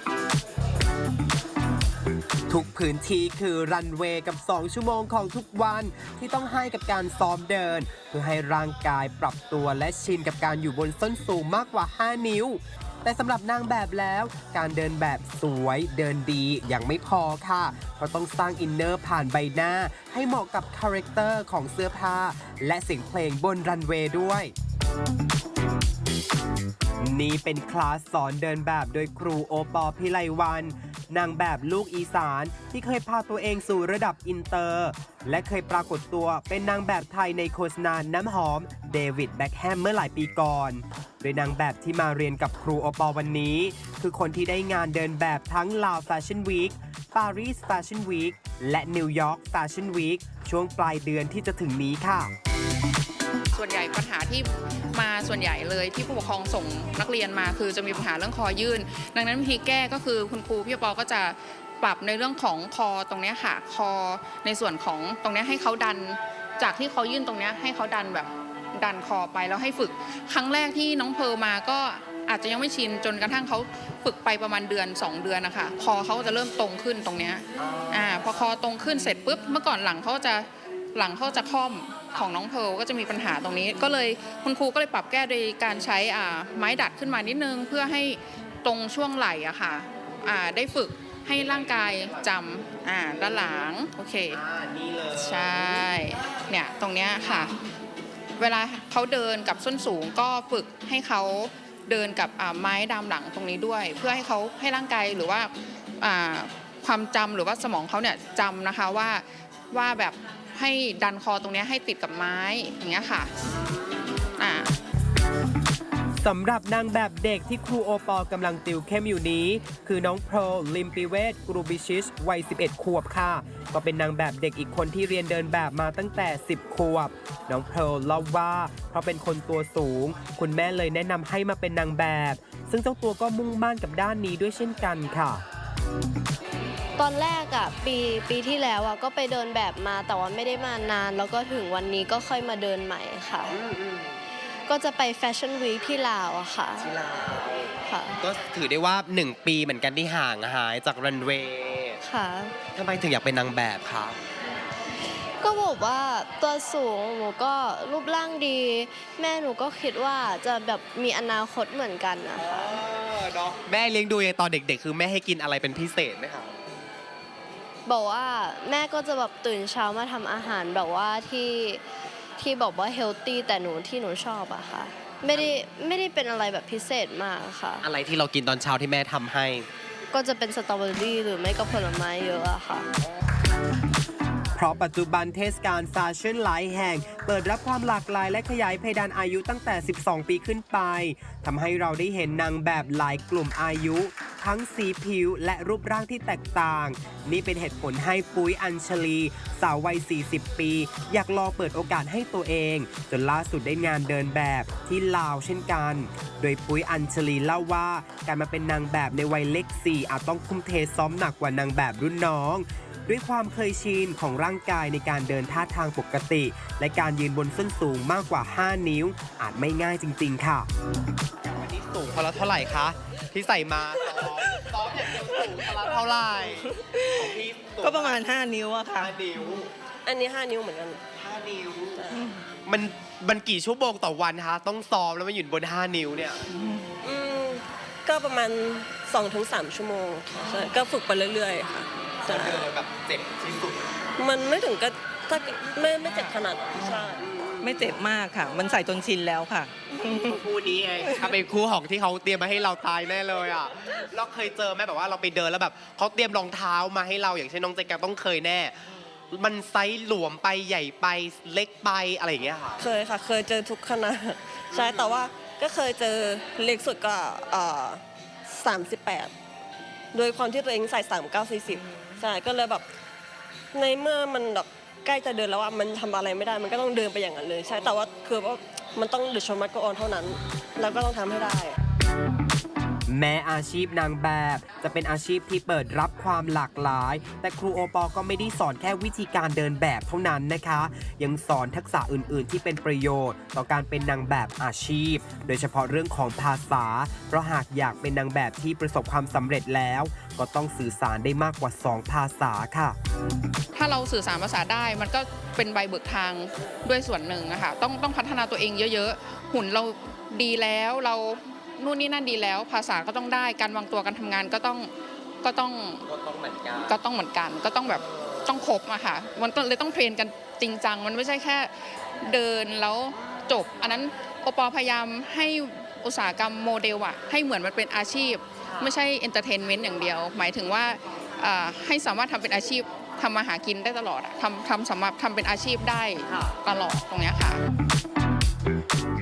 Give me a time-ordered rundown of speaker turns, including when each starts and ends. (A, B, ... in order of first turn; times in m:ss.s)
0:02.5-0:24.5 A
0:27.0-0:52.3 A
0:53.5-1:34.4 B
1:17.6-1:18.4 A
1:31.3-1:33.7 A
1:34.3-1:35.9 A
1:35.1-1:37.5 B
1:38.4-1:53.3 B
1:53.6-1:54.2 A
1:54.4-1:54.7 B
1:56.2-2:15.4 A
2:17.0-2:23.5 C
2:23.4-2:24.2 A
2:24.7-2:26.9 C
2:26.8-2:32.0 A
2:27.9-2:28.2 C
2:32.0-2:32.6 C
2:32.7-2:34.2 A
2:35.4-2:42.8 C
2:42.3-2:46.5 A
2:47.8-2:51.8 C
2:52.4-2:57.8 C
2:55.3-2:55.5 A
2:57.8-2:59.7 A
3:00.1-3:02.9 C
3:04.5-3:40.7 A
3:41.4-3:48.2 A
3:44.1-3:44.7 D
3:45.2-3:49.2 D
3:49.0-3:49.7 A
3:50.0-3:51.1 E
3:51.1-3:52.1 A
3:52.0-3:52.2 E
3:52.6-3:56.4 A
3:57.0-4:02.7 E
4:02.2-4:03.8 A
4:04.2-4:07.3 E
4:06.7-4:07.0 D
4:07.2-4:07.7 A
4:07.6-4:10.4 D
4:10.1-4:22.8 A
4:22.8-4:29.3 E
4:24.7-4:25.2 A
4:30.1-4:32.8 E
4:33.7-4:41.8 E
4:43.1-5:03.0 A
5:03.7-5:14.9 B
5:15.4-5:16.0 B
5:16.1-5:16.9 A
5:16.8-5:37.6 B
5:28.7-5:29.0 A
5:36.3-5:36.5 A